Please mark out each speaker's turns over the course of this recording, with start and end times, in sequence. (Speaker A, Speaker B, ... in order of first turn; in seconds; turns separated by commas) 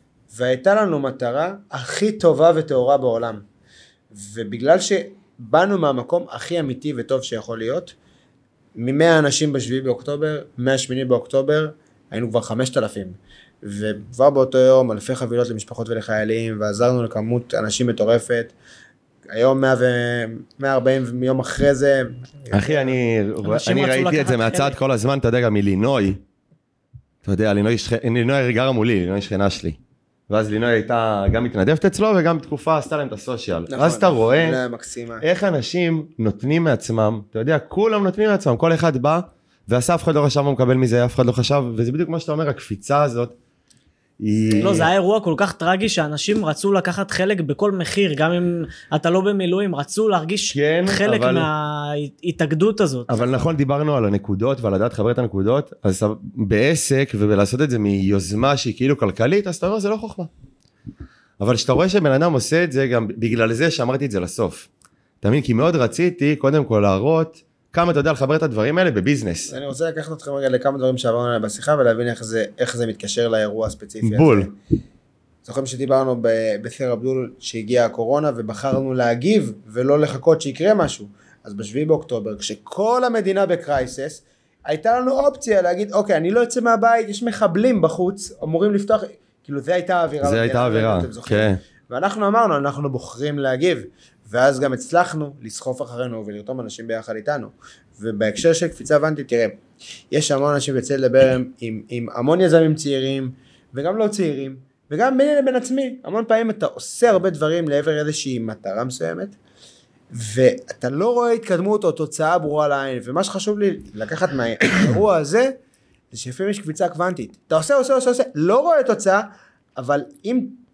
Speaker A: 0.3-3.4, Speaker A: 4.1-7.9, Speaker A: 8.8-18.5, Speaker A: 19.3-22.9, Speaker B: 22.5-26.2, Speaker C: 23.4-24.8, Speaker B: 27.2-29.8, Speaker B: 30.3-34.6, Speaker A: 33.7-35.2, Speaker B: 35.2-43.3, Speaker B: 44.2-44.9, Speaker A: 44.4-44.9, Speaker C: 44.6-53.1, Speaker B: 50.5-51.5, Speaker B: 53.1-60.3, Speaker A: 53.1-53.5, Speaker B: 61.4-64.7, Speaker B: 65.2-69.5, Speaker A: 69.5-74.5, Speaker B: 74.0-74.5, Speaker A: 75.4-99.5, Speaker B: 90.2-91.6, Speaker A: 100.1-109.3, Speaker A: 110.1-115.5, Speaker A: 116.1-119.2, Speaker A: 119.8-120.6